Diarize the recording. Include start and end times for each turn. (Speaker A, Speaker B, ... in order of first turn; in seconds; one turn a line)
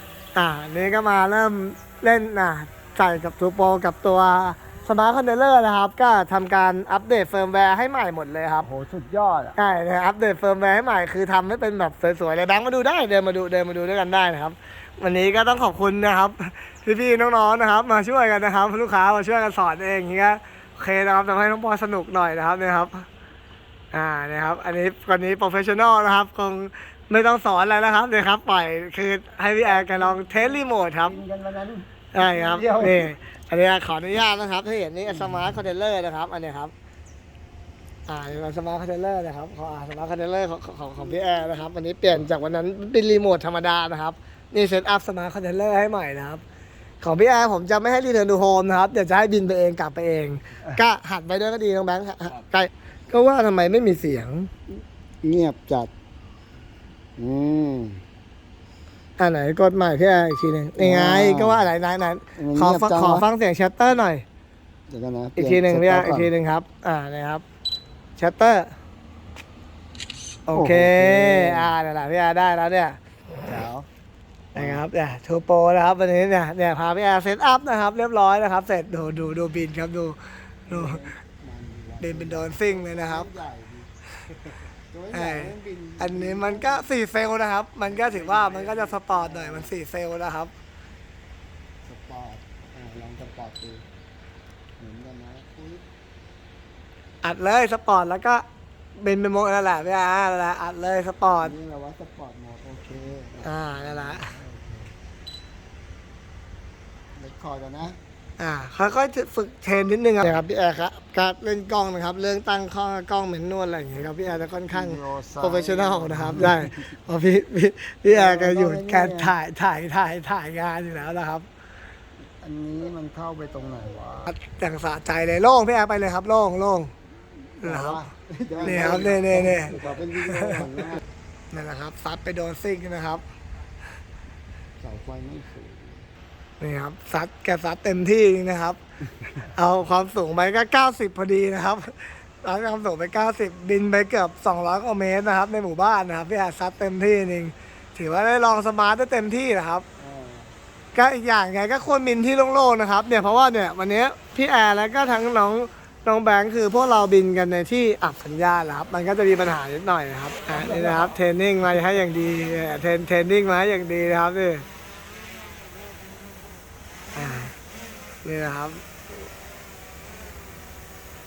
Speaker A: 0.3-8.7
Speaker B: 8.6-9.6
Speaker A: 9.6-23.1
Speaker A: 23.9-31.2
Speaker B: 29.6-33.1
Speaker A: 32.1-36.7
Speaker A: 38.1-46.4
Speaker A: 47.0-54.5
Speaker B: 55.2-55.9
Speaker B: 57.2-58.0
Speaker A: 59.2-64.2
Speaker B: 60.8-61.7
Speaker B: 62.4-63.3
Speaker B: 64.9-66.3
Speaker A: 65.4-67.4
Speaker A: 68.2-68.7
Speaker A: 70.5-73.0
Speaker B: 70.5-71.8
Speaker B: 73.5-73.9
Speaker A: 74.5-81.0
Speaker B: 74.5-74.8
Speaker B: 80.7-83.9
Speaker A: 82.0-83.3
Speaker B: 84.9-86.9
Speaker A: 85.1-90.5
Speaker B: 87.8-89.7
Speaker B: 91.8-93.8
Speaker B: 94.8-95.8
Speaker A: 97.2-98.4
Speaker A: 99.0-101.5
Speaker B: 101.4-104.9
Speaker A: 103.4-104.3
Speaker B: 107.2-108.0
Speaker A: 108.4-121.5
Speaker B: 114.7-116.7
Speaker B: 118.0-119.4
Speaker B: 122.4-124.3
Speaker A: 124.3-126.9
Speaker A: 127.6-128.0
Speaker B: 127.6-131.0
Speaker A: 128.6-130.7
Speaker A: 131.5-133.2
Speaker B: 134.8-136.1
Speaker A: 136.6-138.8
Speaker A: 139.6-149.8
Speaker B: 150.0-150.6
Speaker A: 150.9-164.7
Speaker B: 160.5-161.2
Speaker A: 167.2-167.5
Speaker A: 168.2-168.8